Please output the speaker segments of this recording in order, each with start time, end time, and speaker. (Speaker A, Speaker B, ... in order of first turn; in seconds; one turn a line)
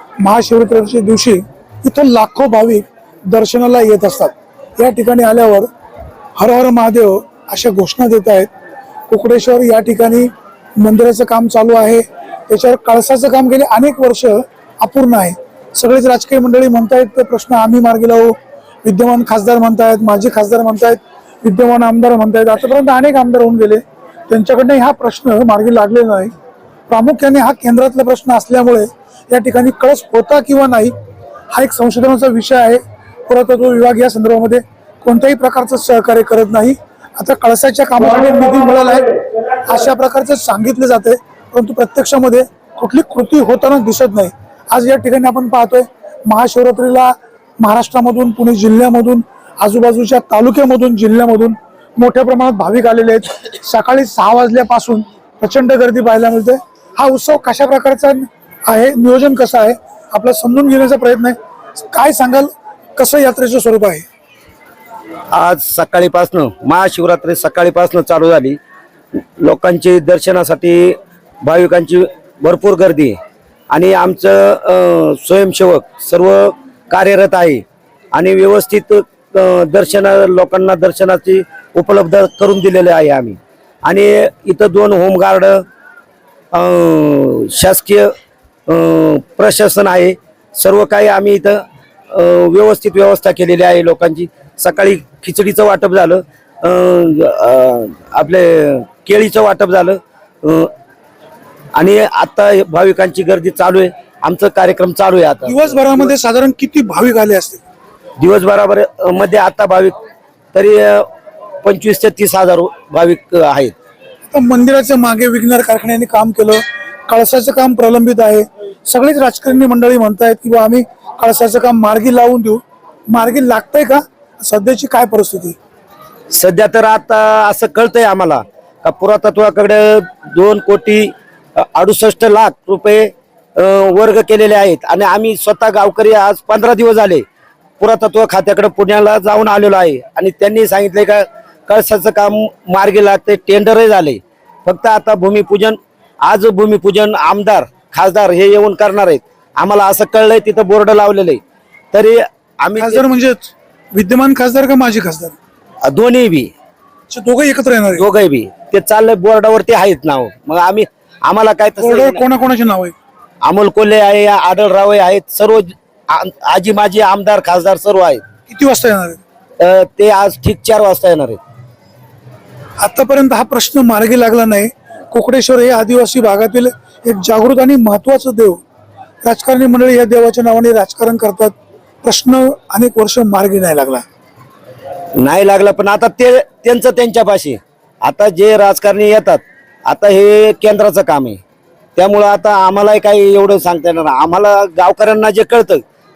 Speaker A: 0.2-5.7
Speaker A: 6.4-8.5
Speaker A: 9.1-10.3
Speaker A: 10.8-26.3
Speaker A: 26.9-30.9
Speaker A: 31.5-39.1
Speaker A: 39.6-61.4
Speaker A: 61.9-64.0
Speaker B: 65.3-68.6
Speaker B: 69.4-73.2
Speaker B: 73.7-77.6
Speaker B: 78.1-85.6
Speaker B: 86.5-88.1
Speaker B: 88.7-91.6
Speaker B: 92.1-100.7
Speaker B: 101.8-106.1
Speaker A: 105.5-107.6
Speaker B: 108.2-110.0
Speaker B: 110.5-111.0
Speaker B: 111.6-113.8
Speaker A: 114.3-125.6
Speaker B: 126.3-137.2
Speaker B: 137.8-151.4
Speaker B: 151.9-153.0
Speaker A: 152.8-155.4
Speaker B: 155.9-156.5
Speaker A: 157.1-158.0
Speaker B: 157.9-162.2
Speaker A: 161.8-162.9
Speaker B: 163.4-168.2
Speaker A: 168.5-169.2
Speaker B: 169.6-171.4
Speaker A: 172.8-178.6
Speaker A: 179.2-184.0
Speaker B: 185.2-191.4
Speaker B: 192.0-195.8